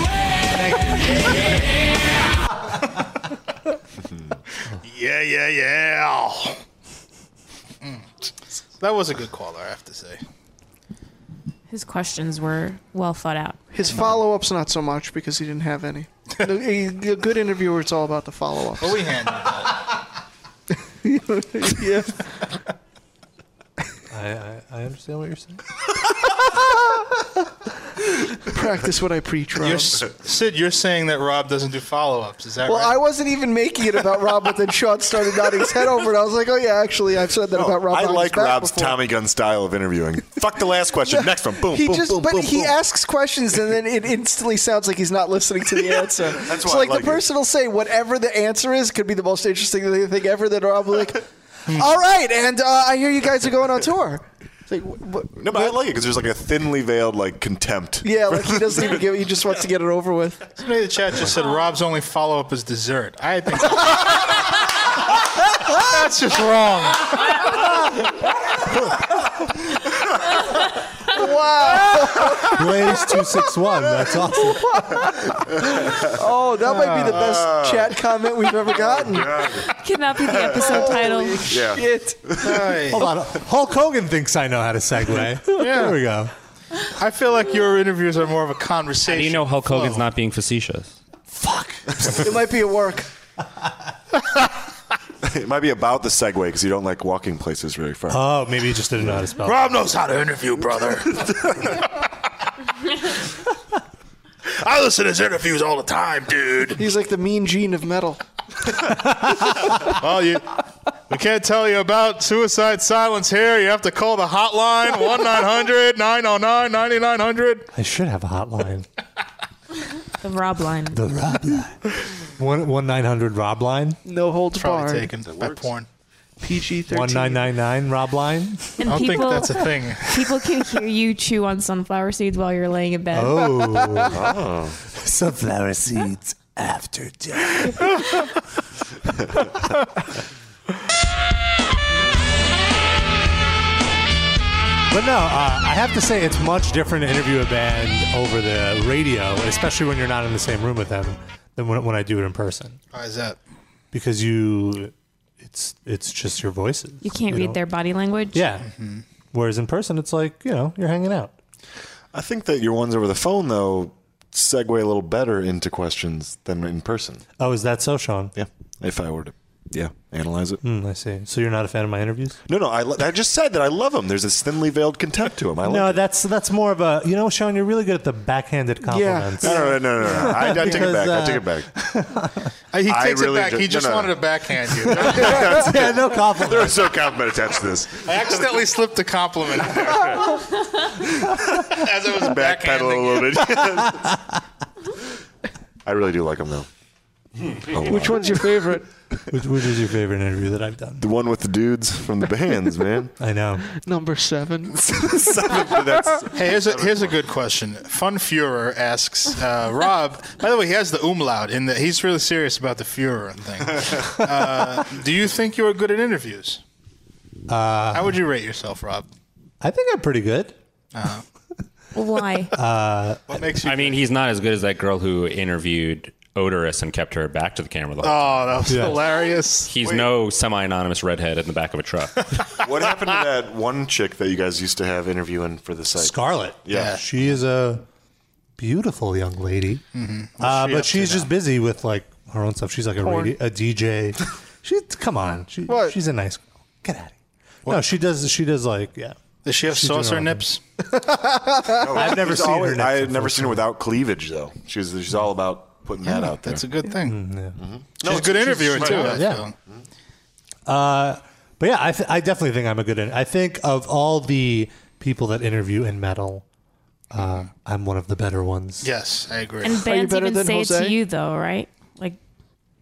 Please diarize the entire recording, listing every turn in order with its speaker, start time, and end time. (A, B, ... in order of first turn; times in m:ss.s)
0:00.5-0:01.0 A
0:04.8-0:06.6 B
0:08.8-0:10.2 B
0:11.7-0:13.6 C
0:13.7-0:19.1 D
0:18.8-0:19.8 B
0:21.0-0:22.5 D
0:24.1-0:25.6 A
0:28.5-0:30.0 D
0:29.6-0:33.0 B
0:32.7-0:39.0 D
0:37.5-0:42.8 E
0:41.1-0:55.8 D
0:46.4-0:47.3 E
0:55.3-0:59.2 E
0:58.0-1:00.5 D
1:00.6-1:04.6 B
1:05.7-1:07.6 B
1:11.1-1:12.6 D
1:12.4-1:15.0 A
1:14.7-1:15.1 D
1:15.6-1:16.2 E
1:16.2-1:19.3 D
1:17.0-1:21.0 E
1:19.7-1:21.6 C
1:20.6-1:22.5 D
1:21.5-1:22.8 E
1:22.4-1:23.0 B
1:22.9-1:26.3 A
1:25.6-1:26.0 B
1:26.9-1:30.0 B
1:29.1-1:31.0 F
1:31.3-1:32.2 A
1:32.1-1:33.1 D
1:35.2-1:38.3 E
1:38.1-1:39.6 A
1:39.4-1:41.8 B
1:44.5-1:46.8 B
1:46.8-1:48.2 D
1:49.8-1:50.5 B
1:51.1-1:57.7 B
1:57.7-1:58.9 A
2:00.2-2:01.0 C
2:00.9-2:01.8 A
2:02.4-2:04.0 A
2:04.0-2:05.1 D
2:04.6-2:05.9 B
2:05.2-2:05.8 E
2:06.4-2:07.5 D
2:06.9-2:08.8 A
2:08.8-2:14.0 C
2:08.8-2:10.3 B
2:13.1-2:14.2 A
2:14.1-2:14.8 E
2:14.9-2:17.9 A
2:24.9-2:32.8 A
2:32.9-2:33.4 B
2:33.9-2:37.6 A
2:37.0-2:38.4 C
2:38.3-2:38.7 A
2:38.7-2:39.0 B
2:39.3-2:41.4 A
2:42.1-2:47.2 E
2:47.4-2:48.4 A
2:48.4-2:50.6 E
2:50.6-2:52.4 A
2:52.5-2:56.0 E
2:55.6-3:02.5 A
2:58.8-3:00.3 D
2:59.4-3:01.7 E
3:02.7-3:05.4 B
3:02.8-3:08.3 E
3:05.1-3:06.9 A
3:08.0-3:10.4 B
3:11.7-3:13.3 B
3:12.1-3:14.1 E
3:15.8-3:16.7 E
3:17.6-3:18.5 E
3:17.8-3:18.9 D
3:19.3-3:21.1 A
3:21.0-3:23.1 E
3:23.2-3:23.7 A
3:23.8-3:24.8 D
3:24.7-3:27.2 E
3:26.4-3:36.6 B
3:37.5-3:38.2 A
3:37.9-3:39.1 B
3:39.6-3:40.6 A
3:40.9-3:41.2 B
3:42.0-3:42.5 C
3:42.5-3:43.4 A
3:43.3-3:44.0 B
3:43.6-3:48.5 F
3:48.0-3:49.9 B
3:48.7-3:49.1 A
3:49.7-3:52.4 F
3:52.6-3:57.0 E
3:56.0-3:57.8 A
3:56.7-3:57.0 B
3:58.6-3:59.8 A
4:00.0-4:01.3 B
4:00.4-4:10.4 A
4:03.0-4:03.3 D
4:05.7-4:06.0 D
4:09.4-4:10.6 B
4:10.9-4:13.6 A
4:11.8-4:16.7 E
4:16.1-4:17.2 B
4:17.1-4:17.6 A
4:17.6-4:19.4 E
4:18.0-4:19.5 B
4:18.7-4:19.5 A
4:20.7-4:26.4 A
4:27.1-4:28.9 A
4:28.8-4:29.8 B
4:29.6-4:32.2 C
4:29.7-4:31.0 D